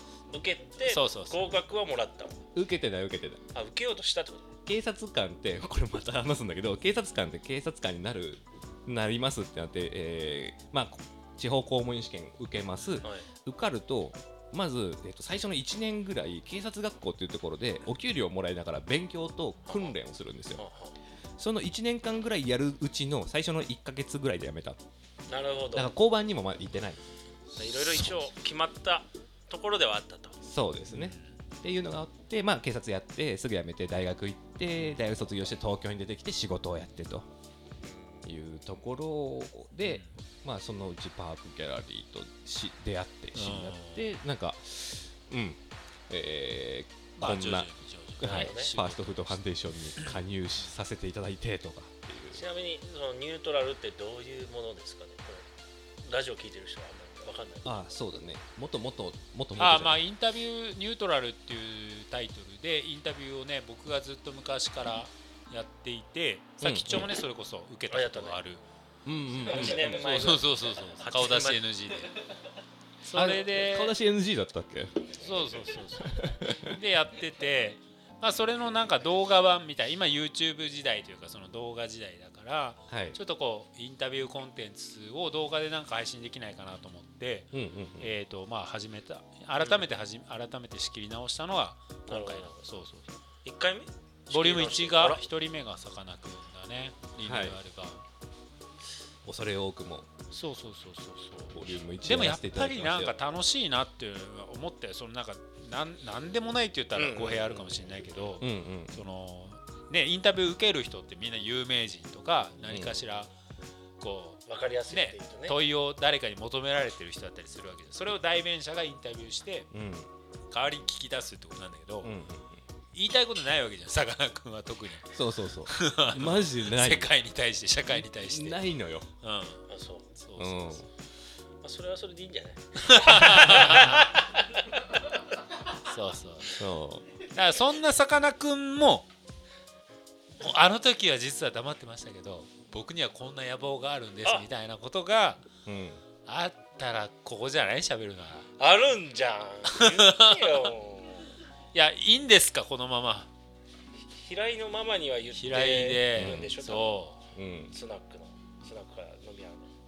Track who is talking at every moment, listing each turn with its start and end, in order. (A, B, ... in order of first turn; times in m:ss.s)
0:00.3-0:02.4 A
0:00.8-0:01.5 B
0:02.5-0:03.4 C
0:03.5-0:04.5 A
0:04.6-0:20.6 C
0:12.8-0:13.0 B
0:19.7-0:19.9 A
0:20.6-0:21.0 A
0:21.4-0:24.8 C
0:25.3-0:25.9 A
0:25.7-0:27.0 C
0:27.6-0:28.2 C
0:27.6-0:30.4 A
0:30.4-0:37.3 C
0:30.9-0:31.4 B
0:37.8-0:38.3 A
0:38.2-0:47.7 C
0:39.8-0:40.1 B
0:43.3-0:44.1 B
0:47.2-0:49.4 B
0:48.2-0:48.7 A
0:48.2-0:52.4 C
0:50.0-0:50.7 B
0:52.3-0:55.5 A
0:56.0-0:57.8 A
0:57.6-1:00.0 C
0:59.6-1:08.6 B
1:06.6-1:07.1 C
1:07.9-1:08.4 A
1:09.0-1:10.4 C
1:09.4-1:11.6 A
1:09.5-1:12.3 B
1:13.0-1:14.0 B
1:13.1-1:15.2 C
1:15.1-1:33.1 B
1:16.0-1:16.8 C
1:22.9-1:23.2 C
1:27.5-1:28.2 C
1:29.6-1:29.9 A
1:32.1-1:32.6 A
1:33.4-1:35.2 A
1:34.3-1:38.0 B
1:37.2-1:37.6 C
1:39.2-1:40.1 C
1:40.3-1:53.3 B
1:41.5-1:43.2 C
1:46.9-1:47.9 A
1:48.4-1:49.0 C
1:52.6-1:53.0 C
1:54.0-1:59.7 B
1:54.5-1:55.6 A
1:59.7-2:00.1 C
2:00.5-2:02.1 B
2:02.0-2:02.6 C
2:02.9-2:05.1 B
2:05.1-2:07.1 C
2:05.6-2:08.6 B
2:07.8-2:09.1 C
2:09.2-2:10.9 B
2:09.7-2:10.1 A
2:10.4-2:10.8 C
2:11.6-2:14.8 A
2:12.8-2:14.1 B
2:15.8-2:16.6 B
2:16.5-2:17.1 C
2:17.2-2:19.1 B
2:20.4-2:25.4 B
2:25.6-2:26.0 C
2:26.2-2:28.5 B
2:28.6-2:31.3 A
2:29.7-2:30.7 B
2:31.7-2:33.3 B
2:34.0-2:36.9 A
2:35.3-2:37.2 B
2:36.1-2:36.5 C
2:37.3-2:37.7 C
2:37.7-2:39.7 A